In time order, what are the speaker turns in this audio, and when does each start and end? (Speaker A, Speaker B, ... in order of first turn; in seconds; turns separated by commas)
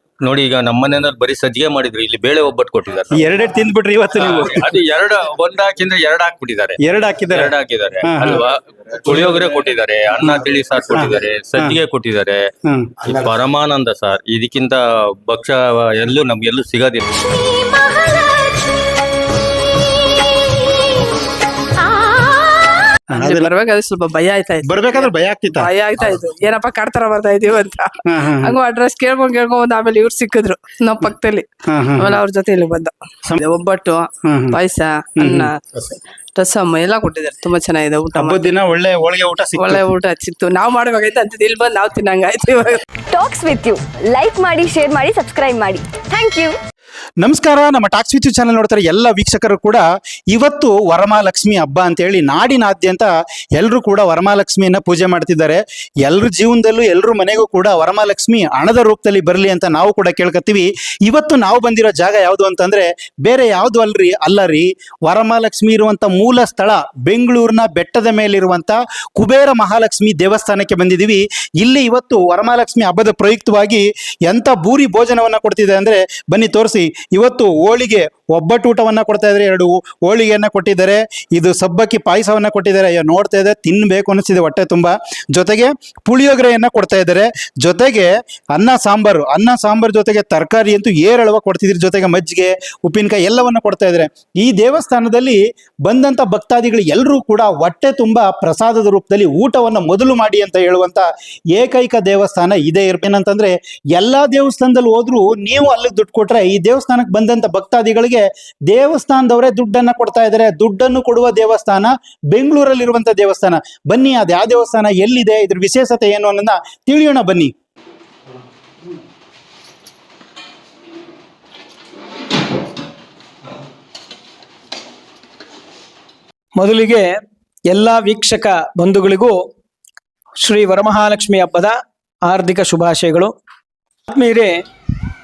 Speaker A: 0.2-3.3, Speaker B: 3.1-4.7, Speaker A: 4.2-6.8, Speaker B: 6.8-8.4, Speaker A: 7.3-12.4, Speaker B: 9.1-9.4, Speaker B: 10.9-11.8, Speaker B: 12.7-13.1, Speaker A: 13.1-17.3, Speaker B: 23.1-23.6, Speaker C: 23.1-31.5, Speaker B: 24.6-26.3, Speaker B: 28.1-28.6, Speaker B: 31.7-32.2, Speaker C: 32.0-35.5, Speaker B: 34.2-34.6, Speaker B: 35.2-35.5, Speaker C: 36.4-38.5, Speaker B: 38.1-39.9, Speaker C: 39.6-42.8, Speaker D: 43.1-46.6, Speaker B: 47.2-117.5, Speaker E: 126.6-127.1, Speaker E: 127.7-129.4, Speaker E: 130.4-131.8, Speaker E: 132.3-133.3, Speaker E: 134.1-134.6